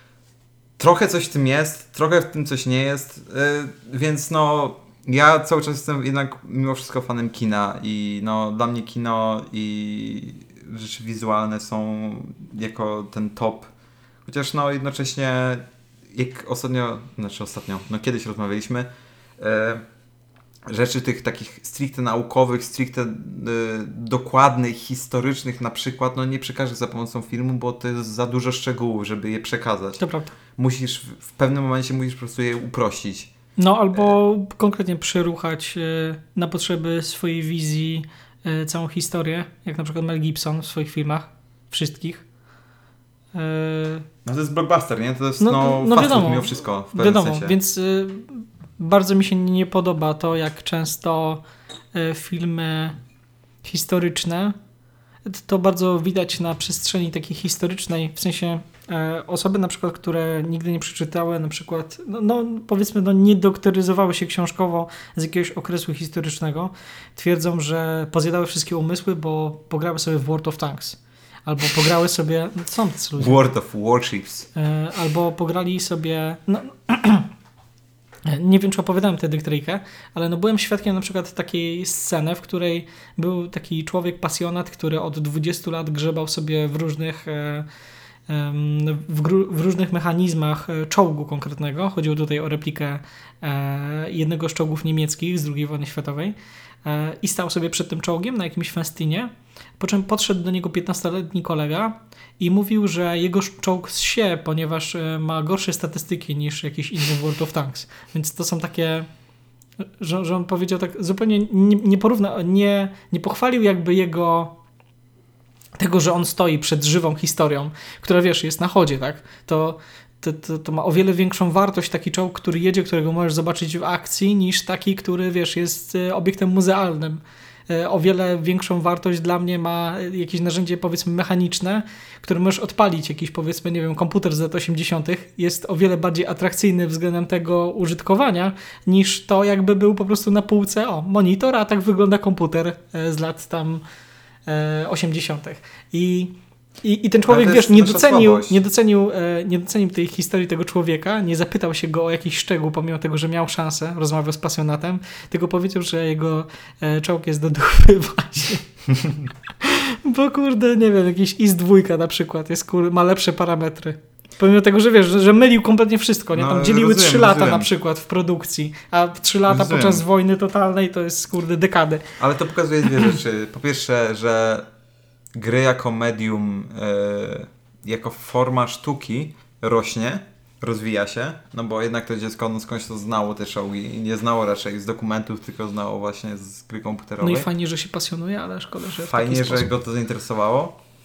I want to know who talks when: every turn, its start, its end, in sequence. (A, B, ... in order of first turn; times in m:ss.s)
0:00.8-0:13.7 A
0:14.2-0:19.8 A
0:20.7-0:30.0 A
0:30.0-0:30.3 B
0:30.6-0:33.3 A
0:33.6-0:42.2 B
0:43.3-0:44.0 B
0:44.2-0:47.6 A
0:45.4-0:51.4 B
0:51.9-0:53.0 B
0:53.6-0:54.6 B
0:55.2-1:13.4 B
1:13.2-1:14.5 A
1:14.5-1:17.3 B
1:18.2-1:27.6 B
1:28.3-1:49.1 B
1:50.0-1:54.5 B
1:55.8-2:23.8 B
2:24.5-2:38.7 B
2:27.3-2:28.6 A
2:39.6-2:52.2 B
2:46.3-2:47.7 A
2:49.5-2:50.0 A
2:52.2-2:54.7 A
2:55.3-3:07.5 A
3:07.2-3:09.7 B
3:09.0-3:10.8 A